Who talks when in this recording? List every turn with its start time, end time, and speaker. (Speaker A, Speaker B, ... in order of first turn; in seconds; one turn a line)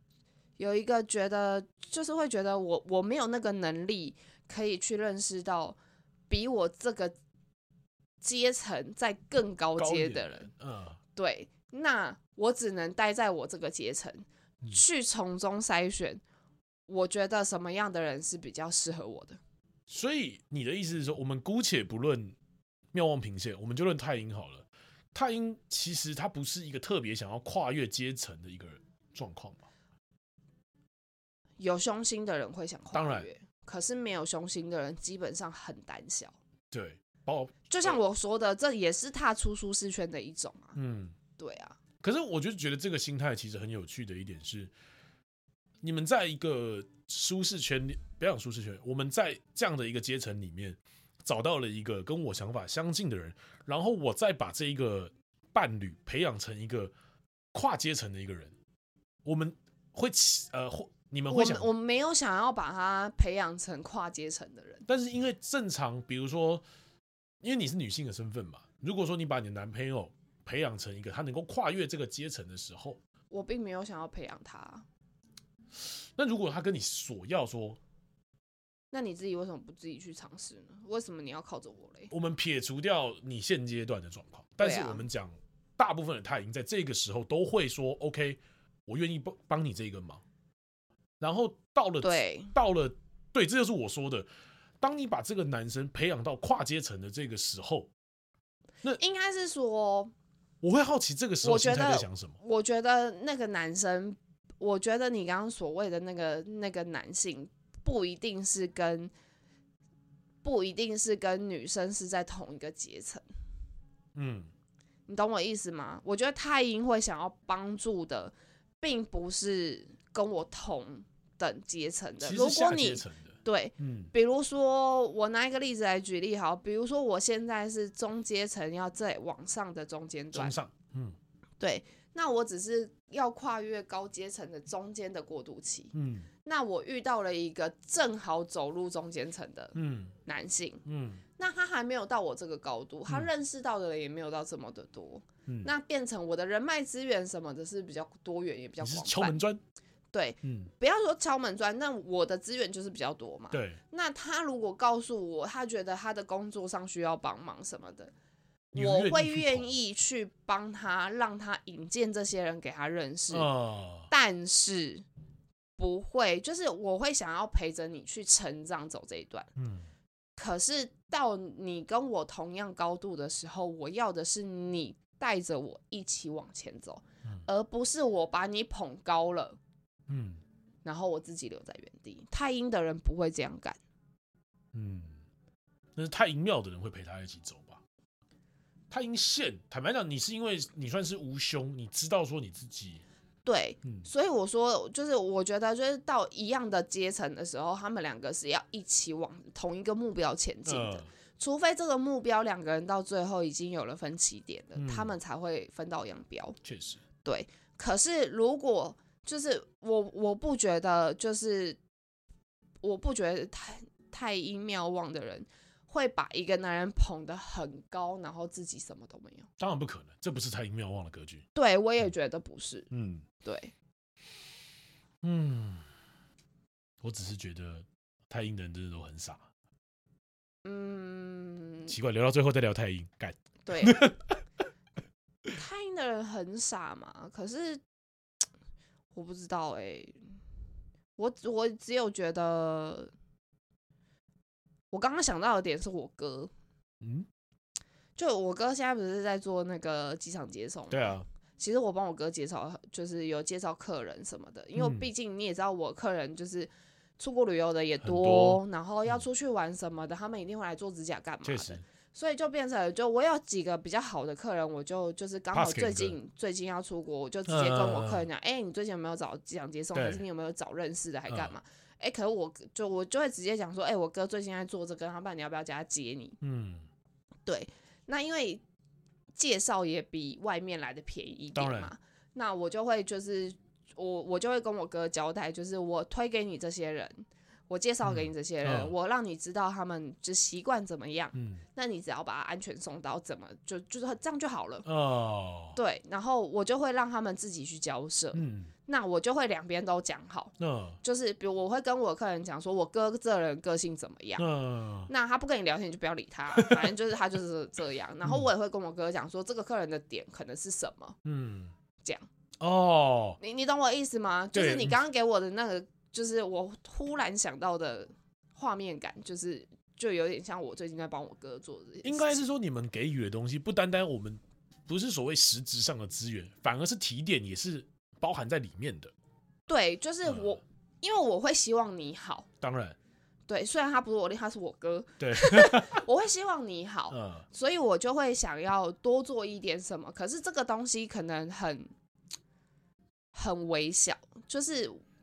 Speaker A: 0.6-5.8
Speaker A: 6.3-7.2
Speaker A: 8.2-10.5
Speaker B: 9.8-11.0
Speaker A: 11.2-16.2
Speaker A: 16.9-19.4
Speaker B: 19.9-22.4
Speaker B: 22.9-29.7
Speaker A: 31.6-36.4
Speaker B: 32.9-33.3
Speaker B: 36.7-38.0
Speaker A: 37.7-40.8
Speaker B: 40.8-41.2
Speaker A: 41.4-41.8
Speaker B: 42.0-44.7
Speaker B: 45.8-56.9
Speaker B: 57.5-58.5
Speaker B: 59.2-61.7
Speaker A: 61.3-64.8
Speaker B: 64.9-66.6
Speaker B: 67.4-73.0
Speaker A: 73.3-74.8
Speaker B: 75.8-77.8
Speaker A: 78.9-82.1
Speaker B: 82.1-90.2
Speaker A: 84.6-85.0
Speaker B: 91.2-94.3
Speaker A: 92.0-92.5
Speaker B: 94.8-97.9
Speaker A: 99.0-100.1
Speaker B: 100.6-102.4
Speaker A: 101.4-109.1
Speaker A: 110.4-113.2
Speaker B: 114.2-114.5
Speaker A: 115.1-130.6
Speaker B: 122.2-124.1
Speaker B: 130.3-131.2
Speaker A: 131.6-140.8
Speaker B: 135.9-136.3
Speaker B: 139.8-140.2
Speaker B: 140.8-141.2
Speaker A: 141.4-149.4
Speaker B: 148.8-149.6
Speaker A: 150.1-158.1
Speaker B: 150.4-150.7
Speaker B: 153.5-153.8
Speaker B: 158.7-159.7
Speaker A: 158.8-163.5
Speaker B: 163.3-164.1
Speaker A: 164.1-165.1
Speaker A: 165.8-169.5
Speaker B: 169.6-169.9
Speaker A: 170.4-179.6
Speaker B: 180.1-180.4
Speaker A: 180.8-183.8
Speaker B: 184.7-185.2
Speaker B: 186.0-187.8
Speaker B: 188.9-193.0
Speaker A: 193.4-206.6
Speaker B: 200.7-201.1
Speaker B: 204.8-205.1
Speaker B: 206.6-207.0
Speaker A: 207.2-211.8
Speaker A: 212.8-219.5
Speaker B: 219.6-221.4
Speaker A: 221.6-222.9
Speaker B: 222.9-223.3
Speaker A: 223.4-223.7
Speaker B: 225.2-225.9
Speaker B: 227.0-229.5
Speaker A: 230.7-231.9
Speaker B: 231.9-234.4
Speaker A: 233.7-234.1
Speaker A: 235.5-237.8
Speaker A: 239.1-240.2
Speaker A: 241.2-243.1
Speaker A: 244.9-246.5
Speaker B: 247.0-247.3
Speaker A: 248.2-276.4
Speaker B: 250.9-251.2
Speaker B: 254.8-255.1
Speaker B: 258.0-259.2
Speaker B: 261.4-261.8
Speaker B: 265.5-266.2
Speaker B: 267.5-268.3
Speaker B: 269.9-270.2
Speaker B: 271.3-271.6
Speaker B: 276.4-276.9
Speaker A: 277.5-278.6
Speaker A: 279.4-294.9
Speaker B: 281.6-281.9
Speaker B: 288.0-288.9
Speaker B: 291.3-291.6
Speaker B: 294.9-295.8
Speaker A: 295.8-304.4
Speaker B: 298.3-298.7
Speaker B: 300.6-301.0
Speaker B: 304.4-305.1
Speaker A: 305.1-311.2
Speaker B: 306.6-306.9
Speaker B: 311.2-311.7
Speaker B: 312.6-313.4
Speaker A: 313.4-322.4
Speaker B: 314.5-315.0
Speaker B: 322.0-329.1
Speaker A: 329.7-332.5
Speaker B: 330.3-330.6
Speaker B: 332.6-333.0
Speaker A: 333.5-341.9
Speaker B: 335.2-336.0
Speaker B: 337.1-337.4
Speaker A: 343.3-345.0